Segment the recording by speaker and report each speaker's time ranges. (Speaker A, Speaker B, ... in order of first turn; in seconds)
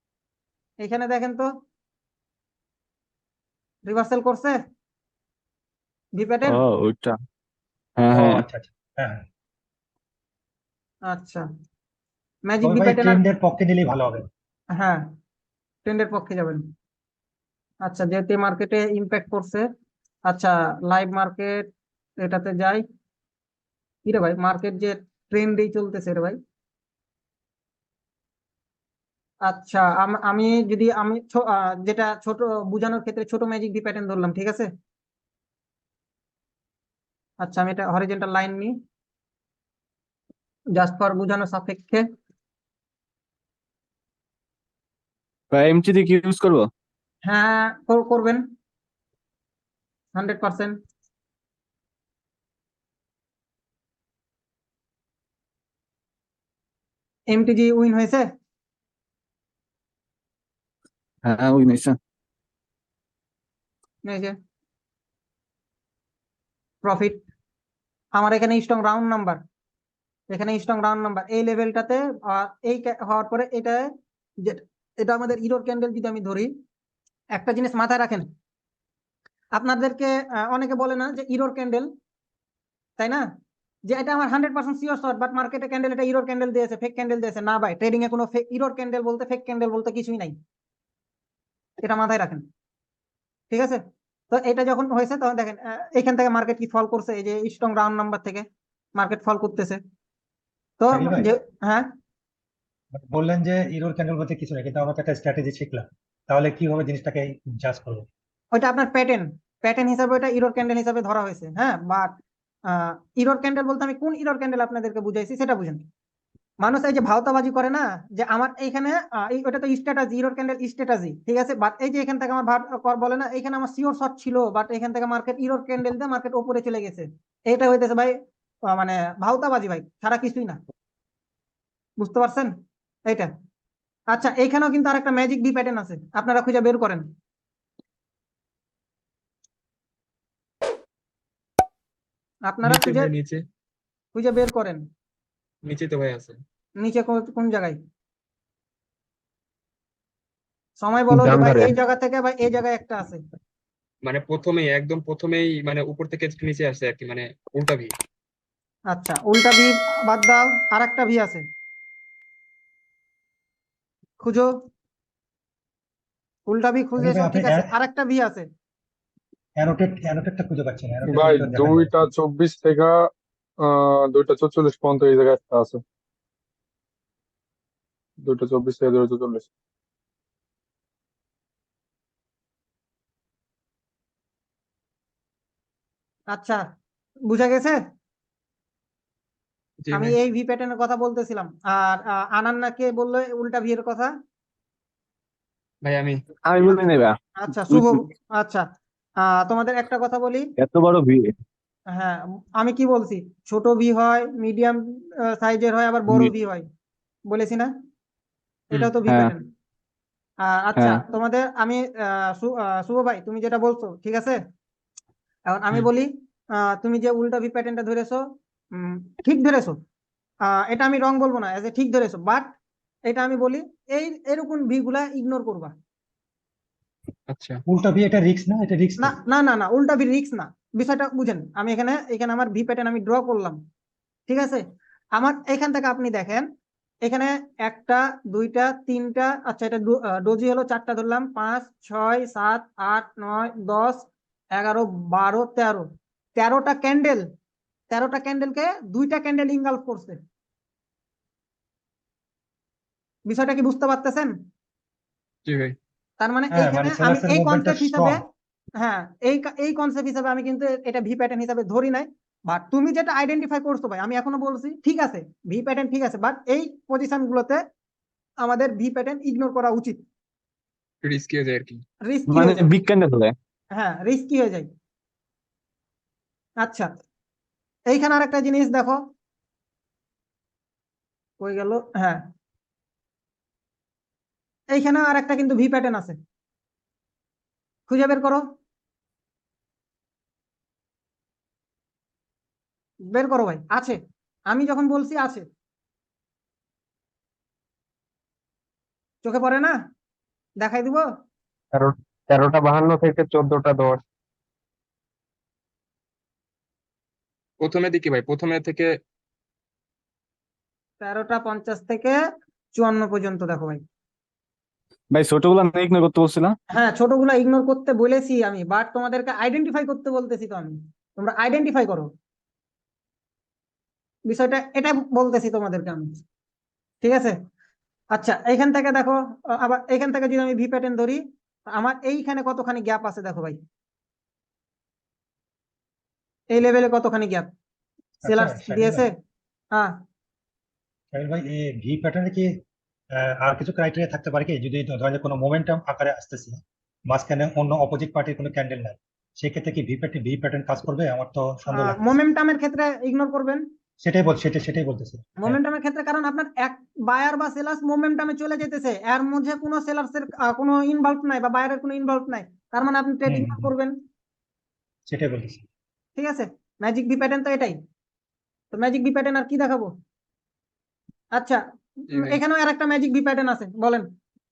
Speaker A: 0.8-1.5, 3.9-4.6, 6.2-6.6, 11.1-11.5, 12.5-13.2, 14.8-15.2, 15.8-16.6, 17.8-19.7, 20.3-21.7, 22.2-22.8, 24.1-26.4, 29.4-34.7, 37.4-38.8, 40.7-42.0, 47.2-48.5, 50.1-50.8, 57.3-58.3, 64.0-64.3, 66.8-67.2, 68.1-69.4, 70.3-76.5, 77.3-78.3, 79.5-81.9, 83.0-83.3, 83.8-90.4, 91.8-92.5, 93.5-99.8, 100.8-101.9, 108.5-115.8, 116.6-130.6, 132.0-132.5, 133.1-133.3, 134.1-137.1, 142.4-143.1, 144.1-144.8, 146.8-147.8, 150.8-153.2, 158.9-161.4, 164.2-164.6, 166.5-168.5, 186.3-186.6, 187.2-187.8, 189.9-194.1, 197.4-198.7, 199.2-200.5, 201.9-206.7, 207.3-207.7, 208.7-209.5, 210.4-214.4, 215.5-219.8, 220.4-222.5, 223.1-225.7, 229.0-233.6, 234.3-236.5, 237.0-247.3, 247.9-250.2, 253.2-254.4, 256.2-258.2, 258.8-267.6, 268.4-270.0, 272.0-272.7, 273.7-274.7, 276.6-276.9, 277.9-279.0, 281.4-282.3, 284.7-286.2, 287.9-288.4, 293.1-294.0, 294.5-295.4, 299.2-299.7, 300.6-301.1, 311.0-312.2, 312.7-313.8, 316.7-322.1, 324.3-326.2, 327.0-327.4, 328.1-333.6, 336.5-337.5, 338.2-339.2, 339.7-340.0, 351.7-353.7, 355.4-364.0, 366.2-367.8, 368.7-369.9, 371.3-374.1
Speaker B: 6.4-7.2, 8.0-8.4, 45.5-46.7, 61.2-62.0, 196.4-198.0, 200.6-201.3, 209.0-209.3, 210.8-211.0, 272.3-273.3, 315.1-316.6
Speaker C: 8.0-9.2, 12.6-14.2, 100.9-101.3, 102.9-108.1, 167.0-167.7, 169.6-171.9, 227.7-229.2, 256.5-258.2, 338.2-339.1, 341.1-352.1, 354.0-355.6, 363.3-363.7, 365.1-365.6
Speaker D: 142.6-143.4, 145.6-146.4, 151.1-151.7, 154.0-157.9, 189.8-190.2, 195.8-196.2, 227.3-227.6, 255.4-255.7, 271.0-271.8, 301.7-304.0, 307.6-309.0, 372.1-372.4
Speaker E: 171.0-175.8, 178.2-179.5